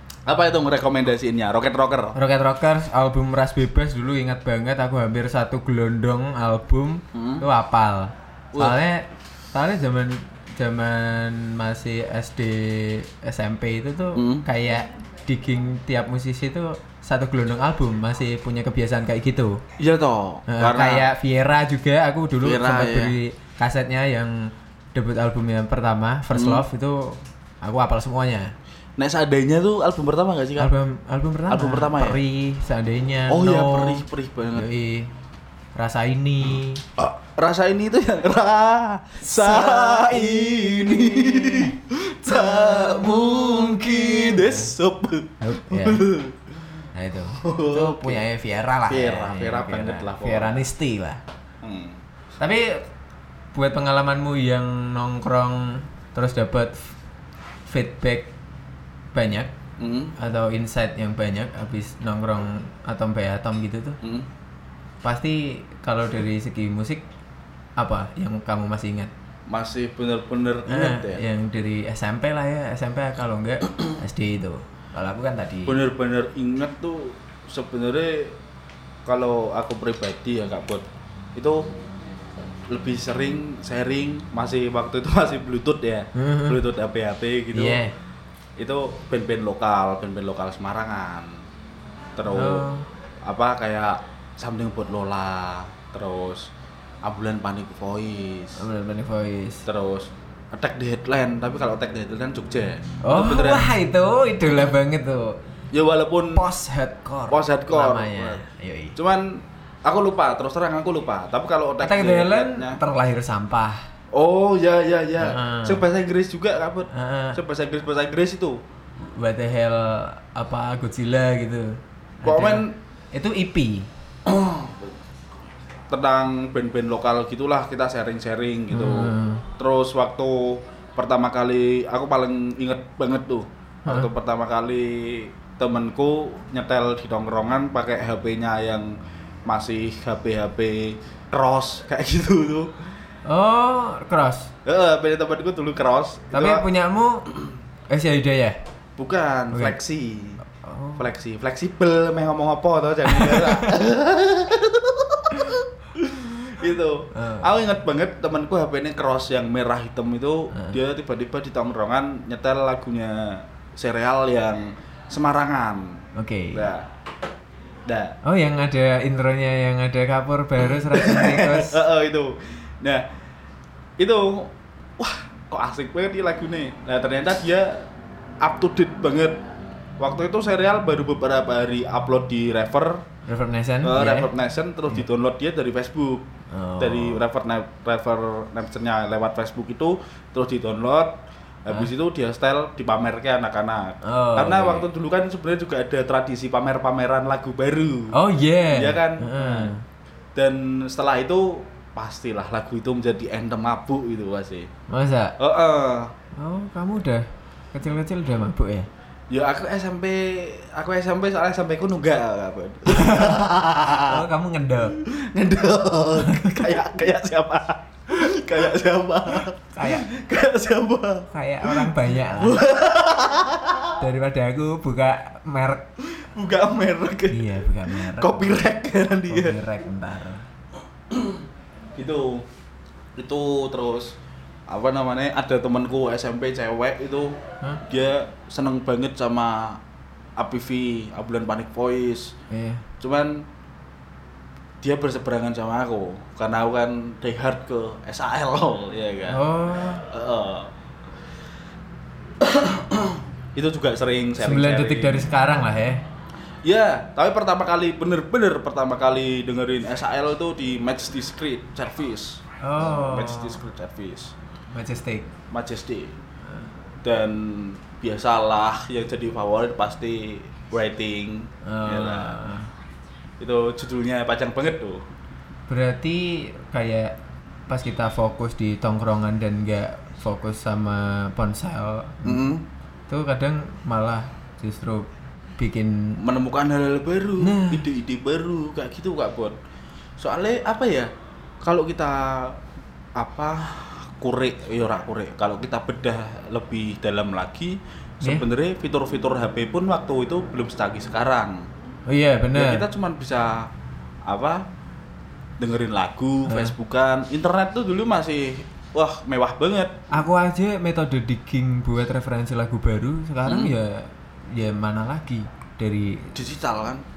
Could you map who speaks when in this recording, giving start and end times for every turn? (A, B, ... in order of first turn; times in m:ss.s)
0:00.2-0:02.2 A
0:02.1-0:19.6 B
0:07.1-0:07.4 A
0:14.1-0:14.4 A
0:19.8-0:21.1 A
0:20.5-0:28.5 B
0:22.4-0:23.2 A
0:26.3-0:26.6 A
0:29.0-0:30.7 A
0:30.6-0:34.0 B
0:31.5-0:32.2 A
0:33.3-0:34.7 A
0:34.5-0:35.1 B
0:35.7-0:36.8 B
0:37.0-0:46.5 A
0:39.2-0:41.8 B
0:42.3-0:44.7 B
0:45.4-0:46.0 B
0:46.9-0:51.2 B
0:47.3-0:48.2 A
0:48.9-0:50.6 A
0:51.6-0:52.0 A
0:52.4-0:52.8 B
0:53.5-0:56.8 B
0:57.7-0:58.3 B
0:59.1-0:59.5 B
0:59.8-1:00.1 A
1:00.2-1:04.0 B
1:04.0-1:04.3 A
1:05.0-1:07.0 B
1:07.8-1:09.1 B
1:09.5-1:11.2 A
1:10.7-1:15.8 B
1:15.6-1:18.4 A
1:19.0-1:21.7 A
1:22.7-1:27.8 A
1:26.1-1:26.6 B
1:27.5-1:27.9 B
1:28.6-1:31.4 A
1:32.2-1:32.6 A
1:32.3-1:32.9 B
1:33.2-1:36.5 A
1:37.0-1:38.6 A
1:38.6-1:39.6 B
1:39.6-1:43.7 A
1:43.0-1:45.4 B
1:45.7-1:46.4 A
1:46.3-1:49.0 B
1:47.3-1:48.4 A
1:48.9-1:52.8 A
1:51.8-1:53.8 B
1:54.1-1:58.6 A
1:55.2-1:55.8 B
1:56.9-1:57.4 B
1:59.0-2:03.9 B
2:02.2-2:02.8 A
2:04.2-2:05.0 A
2:05.9-2:18.9 A
2:08.7-2:09.4 B
2:19.4-2:22.7 A
2:23.2-2:24.5 B
2:24.6-2:26.6 A
2:26.3-2:27.3 B
2:27.9-2:28.6 B
2:29.0-2:30.4 A
2:30.5-2:31.0 B
2:31.0-2:46.9 A
2:33.1-2:33.7 B
2:37.1-2:37.5 B
2:40.5-2:40.8 B
2:46.1-2:46.7 B
2:47.8-2:48.2 A
2:48.2-2:51.8 B
2:50.8-2:53.0 A
2:54.0-2:57.9 A
2:58.4-2:59.4 A
3:00.0-3:03.0 A
3:03.2-3:04.3 B
3:03.8-3:06.2 A
3:06.5-3:07.2 B
3:06.8-3:18.2 A
3:14.0-3:14.8 B
3:18.1-3:19.8 B
3:18.7-3:19.7 A
3:20.3-3:24.7 A
3:24.9-3:25.4 B
3:25.4-3:26.1 A
3:26.4-3:28.9 B
3:29.3-3:34.2 A
3:32.9-3:33.4 B
3:34.0-3:35.0 B
3:34.9-3:44.0 A
3:36.2-3:36.6 B
3:39.7-3:40.1 B
3:41.3-3:42.6 B
3:44.0-3:45.8 B
3:46.1-3:49.6 A
3:47.3-3:48.6 B
3:49.3-3:50.4 B
3:51.1-3:51.4 A
3:52.0-3:52.4 A
3:53.2-3:54.2 A
3:54.7-3:59.8 A
4:00.4-4:02.3 A
4:02.5-4:02.9 B
4:03.0-4:03.5 A
4:04.8-4:09.4 A
4:09.3-4:10.0 B
4:10.0-4:10.7 A
4:12.4-4:15.3 A
4:14.4-4:16.0 B
4:16.6-4:24.3 A
4:22.6-4:23.6 B
4:24.7-4:25.3 B
4:25.5-4:26.1 A
4:27.0-4:32.4 A
4:31.6-4:32.7 B
4:33.4-4:35.0 A
4:35.7-4:37.1 B
4:37.7-4:42.4 B
4:42.2-4:42.6 A
4:43.1-4:46.2 B
4:46.2-4:49.6 A
4:47.4-4:47.8 B
4:50.2-4:51.1 A
4:51.6-4:52.6 A
4:53.2-5:01.7 A
5:02.1-5:02.8 B
5:02.5-5:03.7 A
5:04.2-5:04.6 A
5:05.6-5:10.0 A
5:06.4-5:06.7 B
5:10.1-5:16.3 B
5:13.4-5:13.7 A
5:16.3-5:17.0 A